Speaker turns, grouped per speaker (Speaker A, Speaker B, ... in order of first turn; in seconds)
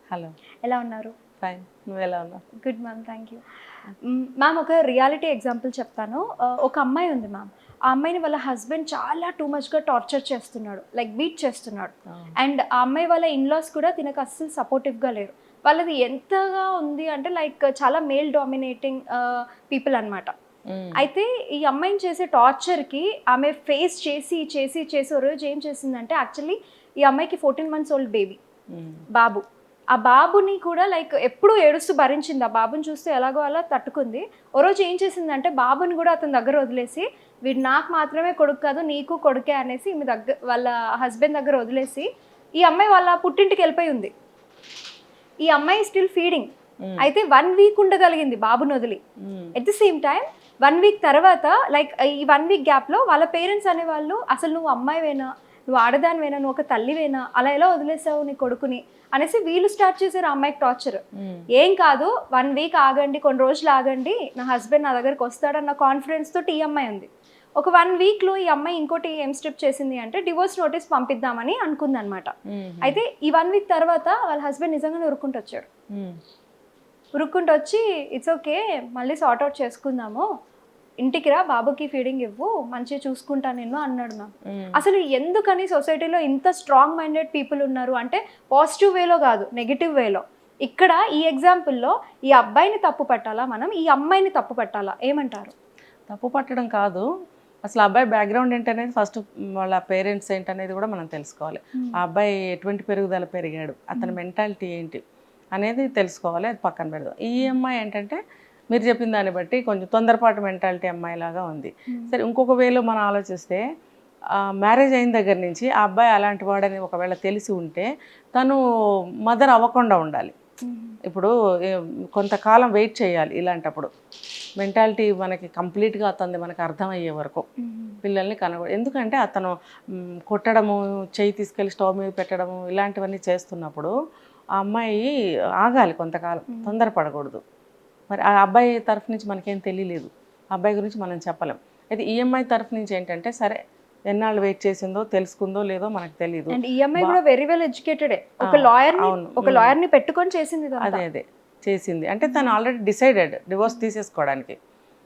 Speaker A: 0.6-1.1, 2.6-3.4, 4.0-20.3, 20.9-28.4, 29.1-29.4, 29.9-44.1, 45.4-49.0, 49.5-61.0, 61.5-75.7, 77.2-80.2, 81.0-95.5, 111.9-112.1, 120.6-121.0, 127.6-128.0, 146.5-151.0, 152.2-152.6
Speaker B: 1.4-2.4, 20.7-21.0, 28.7-29.0, 46.8-47.1, 49.2-49.5, 61.1-61.5, 72.5-73.0, 75.9-76.2, 84.5-84.8, 96.1-97.0, 97.6-105.0, 105.5-108.2, 108.7-113.6, 114.4-118.6, 119.2-120.3, 121.0-123.9, 124.6-127.4, 128.0-129.5, 130.3-133.9, 134.6-137.4, 138.1-147.2, 148.5-149.8, 150.8-154.5